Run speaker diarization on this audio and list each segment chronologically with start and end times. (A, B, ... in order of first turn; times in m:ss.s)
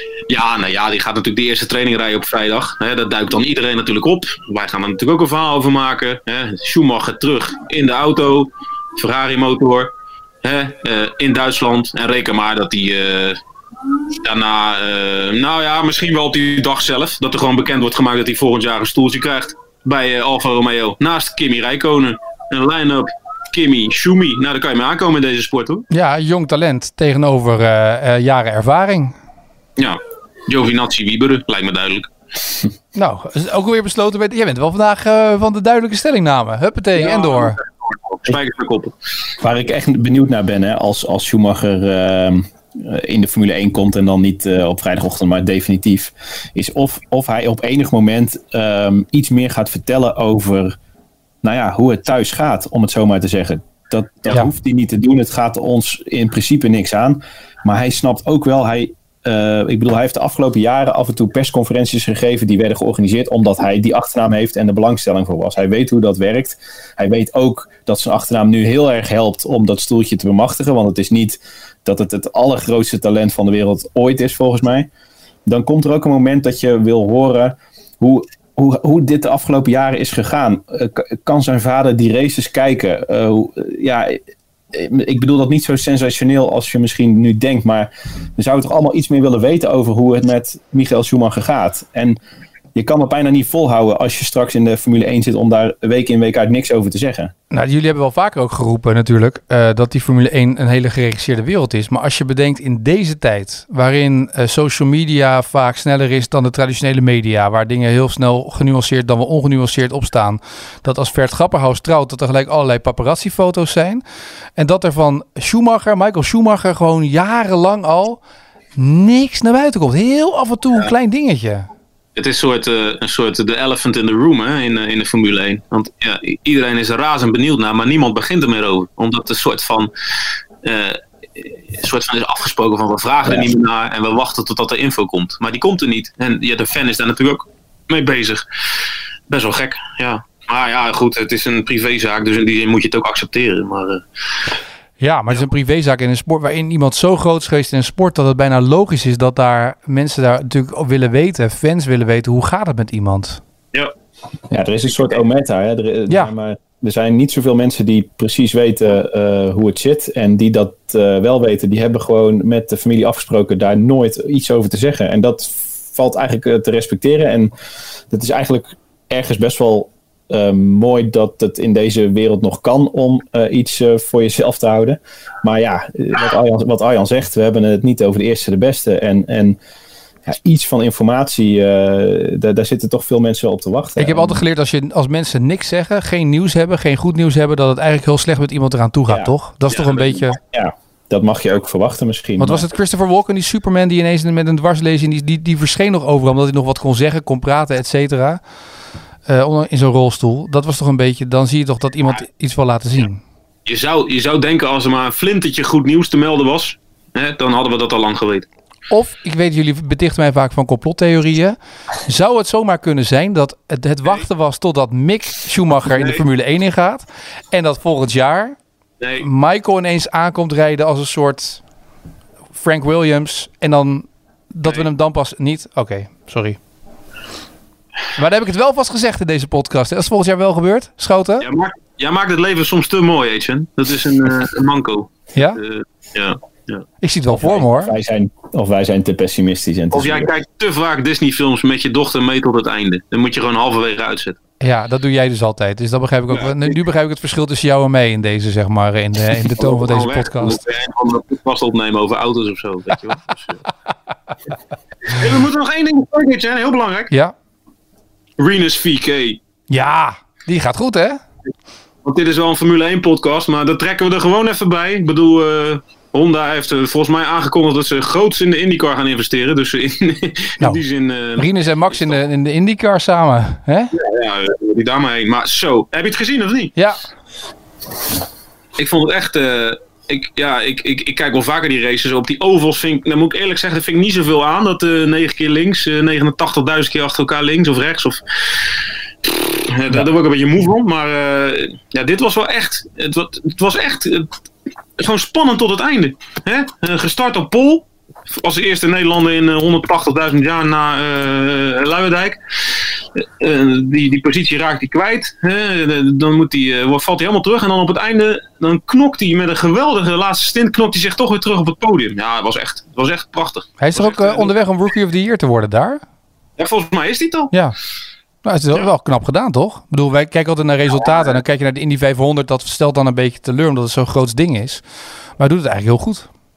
0:00.3-0:09.9 A
0:10.4-0:13.4 A
0:14.2-0:25.9 A
0:25.9-0:29.2 B
0:29.8-0:32.1 A
0:32.9-0:37.6 B
0:37.0-0:38.9 A
0:39.4-0:50.8 C
0:51.4-1:14.9 C
1:15.4-1:24.2 C
1:24.7-1:32.2 C
1:32.7-1:37.3 C
1:37.5-1:54.0 B
1:54.6-1:58.2 B
1:58.8-2:01.7 B
2:02.2-2:09.9 A
2:10.6-2:18.4 A
2:19.3-2:24.0 A
2:25.0-2:33.4 B
2:34.5-2:47.5 C
2:48.1-2:59.6 C
3:00.3-3:04.4 C
3:04.0-3:10.4 B
3:09.1-3:12.7 C
3:09.7-3:10.1 A
3:12.4-3:18.4 B
3:19.2-3:23.2 B
3:23.6-3:28.4 A
3:28.9-3:38.6 B
3:35.9-3:36.2 A
3:39.0-3:39.3 A
3:39.2-3:41.6 B
3:42.6-3:46.6 B
3:48.2-3:51.5 B
3:51.4-3:56.8 A
3:55.4-3:55.6 B
3:57.0-3:57.9 B
3:57.3-4:00.3 C
3:59.9-4:04.4 A
4:04.6-4:10.6 B
4:06.3-4:06.7 A
4:09.6-4:13.6 A
4:15.0-4:17.1 A
4:18.4-4:19.4 A
4:19.7-4:21.2 B
4:22.0-4:32.2 A
4:31.4-4:33.9 B
4:33.9-4:36.7 A
4:36.8-4:37.0 B
4:38.8-4:48.7 A
4:49.2-4:54.3 A
4:55.0-5:02.4 A
5:03.1-5:14.5 A
5:13.8-5:16.0 B
5:16.6-5:17.5 A
5:18.4-5:24.8 B
5:21.0-5:21.4 A
5:25.4-5:26.3 B